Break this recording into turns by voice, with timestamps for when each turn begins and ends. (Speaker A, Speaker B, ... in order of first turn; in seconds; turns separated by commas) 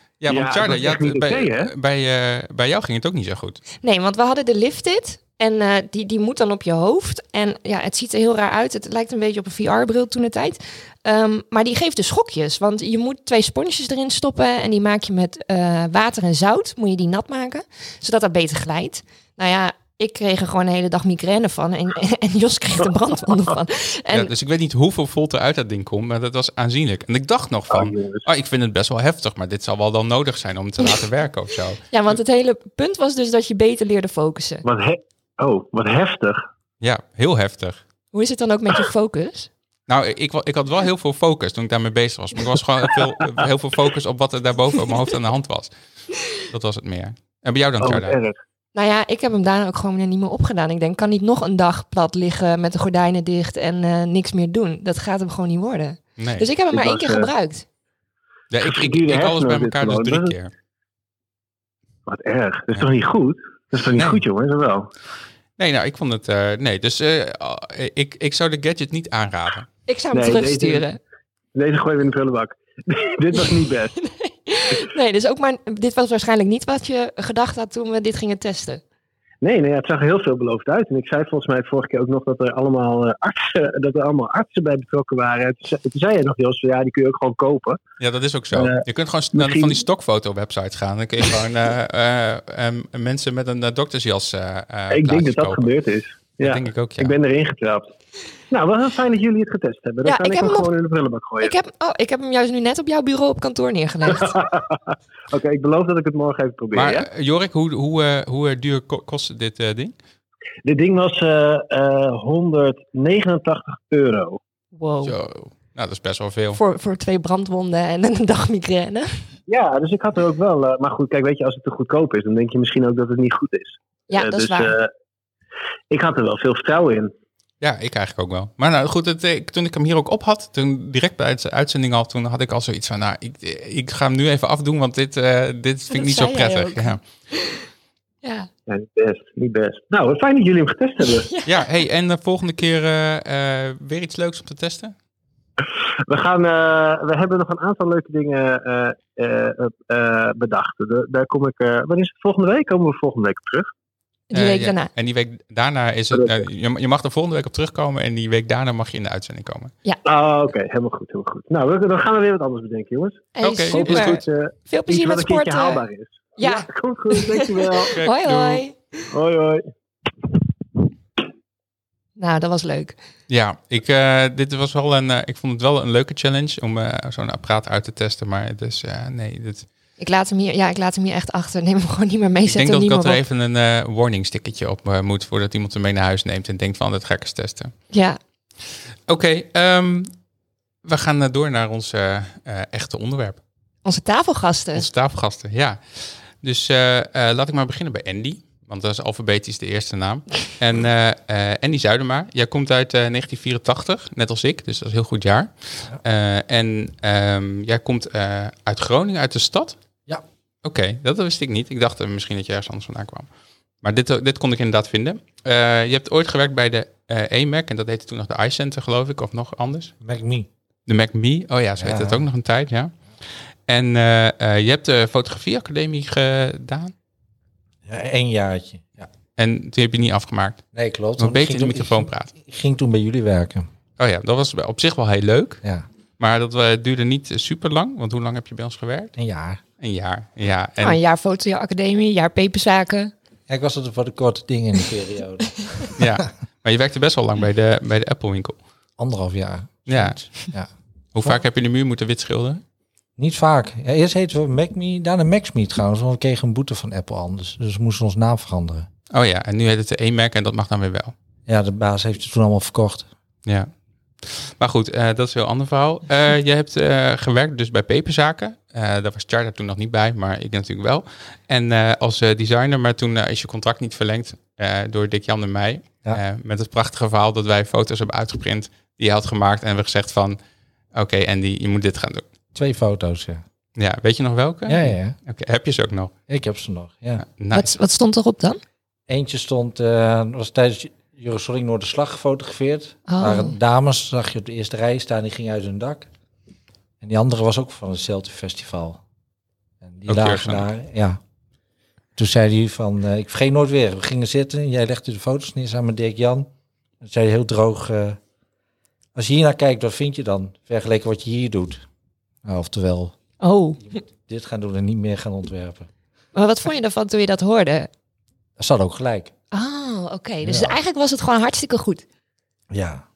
Speaker A: 0.2-3.6, Speaker B: 0.3-1.7, Speaker C: 3.8-24.3, Speaker A: 24.1-31.8, Speaker B: 27.7-28.2, Speaker C: 31.9-34.6, Speaker B: 34.6-36.4, Speaker A: 36.8-37.8, Speaker C: 38.1-39.5, Speaker A: 39.9-45.7, Speaker A: 46.4-48.2, Speaker B: 47.8-48.4, Speaker C: 48.7-57.6, Speaker A: 56.2-56.5, Speaker B: 56.7-57.3, Speaker A: 58.5-60.5, Speaker B: 58.6-60.3, Speaker B: 62.1-64.9, Speaker A: 63.9-64.2, Speaker A: 65.6-69.7, Speaker C: 69.9-71.0, Speaker B: 70.1-70.8, Speaker B: 71.5-73.9, Speaker C: 74.5-78.8, Speaker B: 79.4-87.8, Speaker A: 88.0-95.7, Speaker B: 88.5-89.8, Speaker B: 94.9-97.9, Speaker A: 96.4-97.1, Speaker B: 98.5-101.5, Speaker C: 100.0-100.7, Speaker C: 101.4-104.3, Speaker B: 104.1-107.1, Speaker A: 106.7-109.9, Speaker B: 110.6-114.4, Speaker C: 114.7-115.2, Speaker A: 115.0-116.6, Speaker C: 116.5-119.1, Speaker B: 119.5-124.9, Speaker C: 124.1-124.7, Speaker B: 125.9-127.1, Speaker A: 127.6-137.0, Speaker C: 135.9-137.6, Speaker C: 138.2-138.5, Speaker B: 138.7-141.3, Speaker C: 141.3-141.6, Speaker A: 141.4-144.9, Speaker B: 146.1-153.7, Speaker C: 154.3-154.9, Speaker A: 154.3-159.7, Speaker B: 156.1-156.4, Speaker B: 160.0-168.0, Speaker C: 163.3-165.8, Speaker A: 163.4-164.2, Speaker C: 166.4-169.0, Speaker A: 167.9-168.6, Speaker B: 169.1-169.6, Speaker C: 172.2-172.9, Speaker A: 173.3-179.7, Speaker C: 180.0-183.2, Speaker A: 182.5-187.7, Speaker C: 187.9-188.2, Speaker A: 189.1-190.1, Speaker A: 190.8-193.4, Speaker C: 193.8-194.8, Speaker A: 194.7-195.8, Speaker A: 196.4-209.8, Speaker A: 210.6-213.3, Speaker A: 213.8-219.9, Speaker D: 220.0-220.5, Speaker A: 220.9-222.9, Speaker D: 221.8-222.2, Speaker A: 223.7-226.9, Speaker D: 227.8-229.1, Speaker A: 229.3-230.6, Speaker D: 230.7-233.7, Speaker A: 231.2-232.3, Speaker A: 234.0-235.6, Speaker A: 236.2-239.1, Speaker D: 239.2-239.6, Speaker A: 239.8-241.0, Speaker C: 240.8-243.1, Speaker D: 243.5-245.9, Speaker A: 246.0-248.6, Speaker D: 249.0-250.7, Speaker A: 249.9-250.3, Speaker A: 251.1-252.6, Speaker D: 253.2-258.9, Speaker A: 259.1-261.1, Speaker D: 261.4-263.1, Speaker A: 264.2-280.4, Speaker A: 280.9-282.2, Speaker D: 282.5-283.4, Speaker A: 283.8-286.1, Speaker D: 284.6-285.1, Speaker D: 286.3-287.2, Speaker A: 287.2-287.7, Speaker C: 287.5-288.6, Speaker D: 289.1-296.1, Speaker C: 293.1-293.5, Speaker D: 297.0-299.0, Speaker D: 299.8-301.2, Speaker A: 300.1-300.6, Speaker D: 302.1-306.5, Speaker D: 307.0-308.2, Speaker D: 309.1-311.8, Speaker D: 312.4-313.1, Speaker C: 313.4-313.8, Speaker D: 313.9-315.9, Speaker C: 316.3-317.9, Speaker D: 318.6-319.3, Speaker C: 319.5-322.0, Speaker D: 320.4-320.8, Speaker D: 322.7-323.0